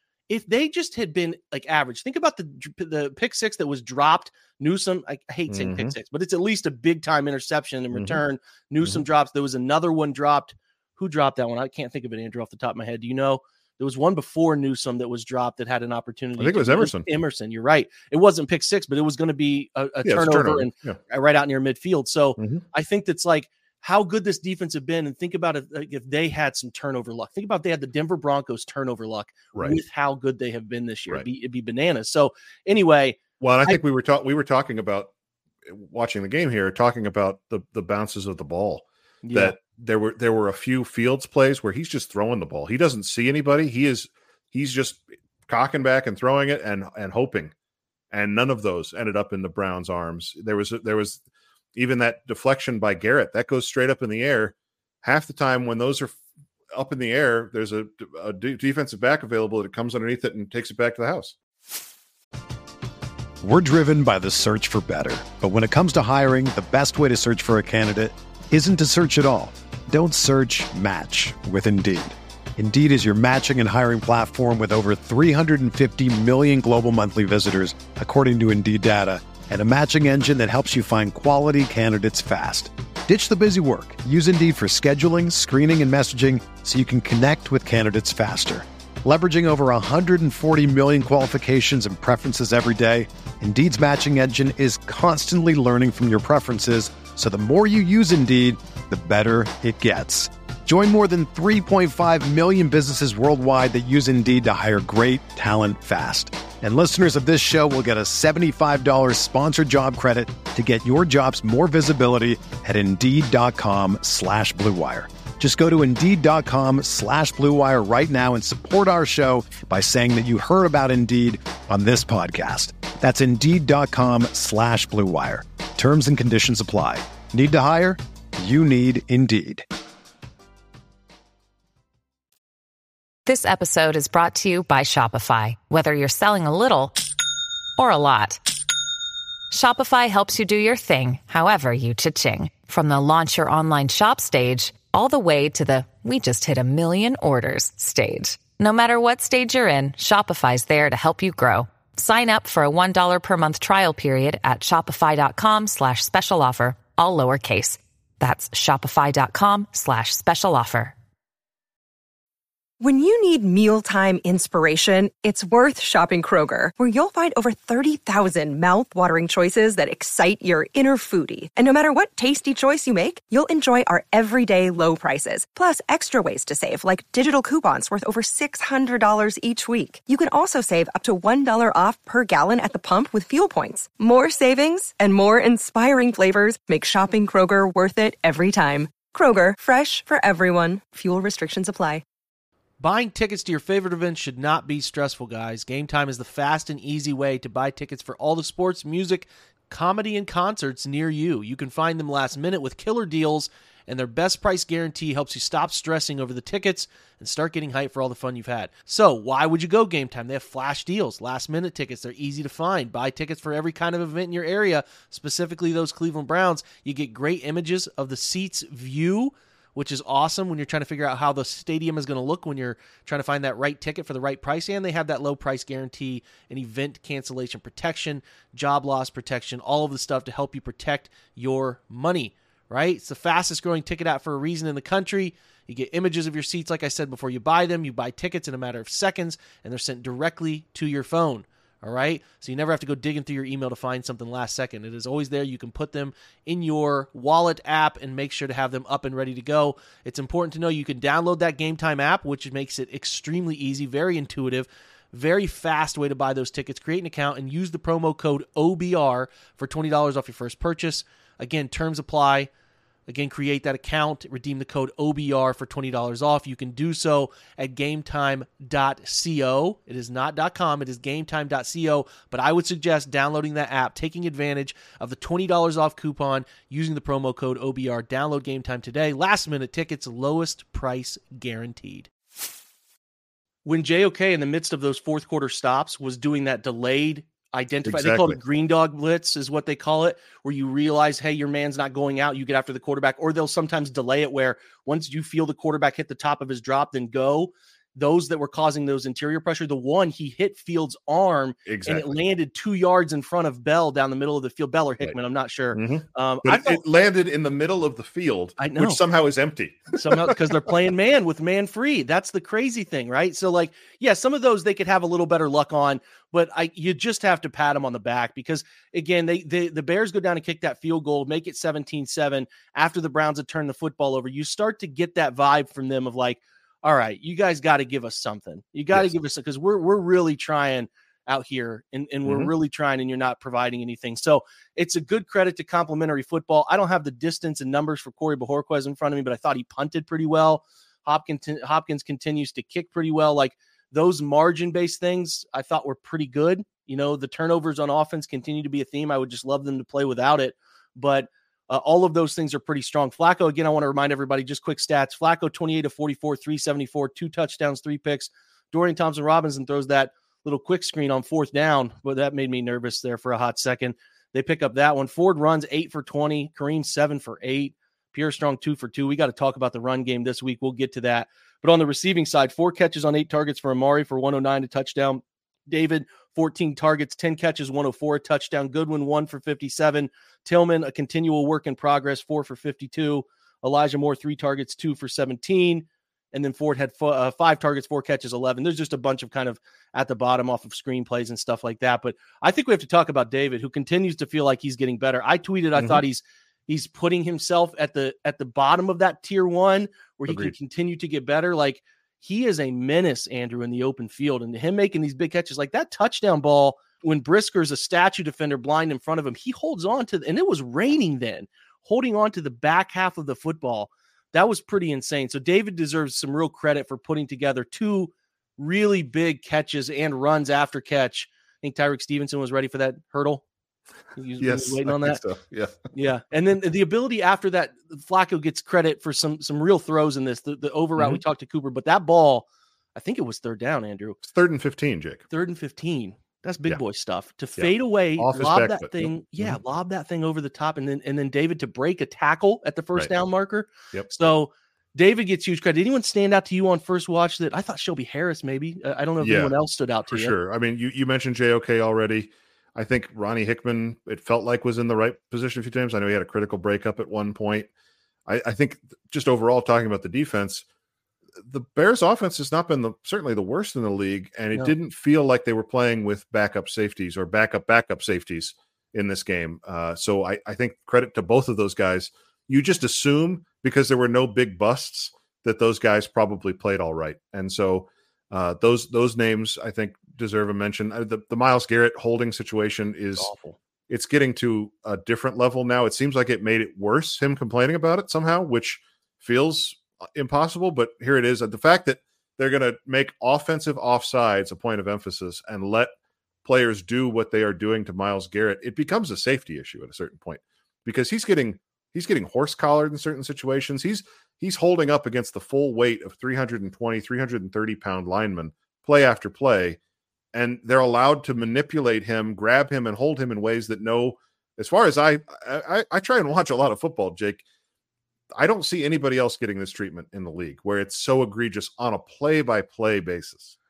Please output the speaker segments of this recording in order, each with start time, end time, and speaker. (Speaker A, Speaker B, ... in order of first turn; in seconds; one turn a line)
Speaker A: 0.3-33.8
Speaker B: 5.5-6.0
Speaker B: 7.9-8.2
Speaker B: 16.4-17.1
Speaker B: 20.0-21.0
Speaker B: 29.5-29.8
Speaker B: 33.4-35.1
Speaker B: 35.6-47.5
Speaker A: 39.2-39.5
Speaker B: 48.1-51.2
Speaker B: 51.8-56.2
Speaker B: 56.7-61.3
Speaker C: 63.4-129.6
Speaker D: 133.2-136.9
Speaker D: 137.8-138.4
Speaker D: 139.5-160.9
Speaker E: 162.8-192.0
Speaker A: 192.8-262.5
Speaker A: 263.1-282.1
Speaker A: 283.6-306.8
Speaker B: 287.8-288.4
Speaker B: 301.7-302.1
Speaker B: 305.7-310.4
Speaker A: 308.6-309.0
Speaker A: 309.9-423.4
Speaker B: 332.2-332.5
Speaker B: 395.8-396.0
Speaker B: 400.3-400.5
Speaker A: 424.1-425.2
Speaker B: 424.4-425.9
Speaker A: 425.9-434.2
Speaker B: 431.0-431.2
Speaker B: 434.2-435.2
Speaker A: 435.3-450.3
Speaker B: 437.6-439.6
Speaker B: 449.2-449.5
Speaker B: 450.1-457.7
Speaker B: 458.3-460.6
Speaker B: 461.4-483.3
Speaker A: 483.2-483.6
Speaker B: 483.9-495.9
Speaker B: 496.4-509.8
Speaker B: 510.3-517.4
Speaker B: 518.4-523.5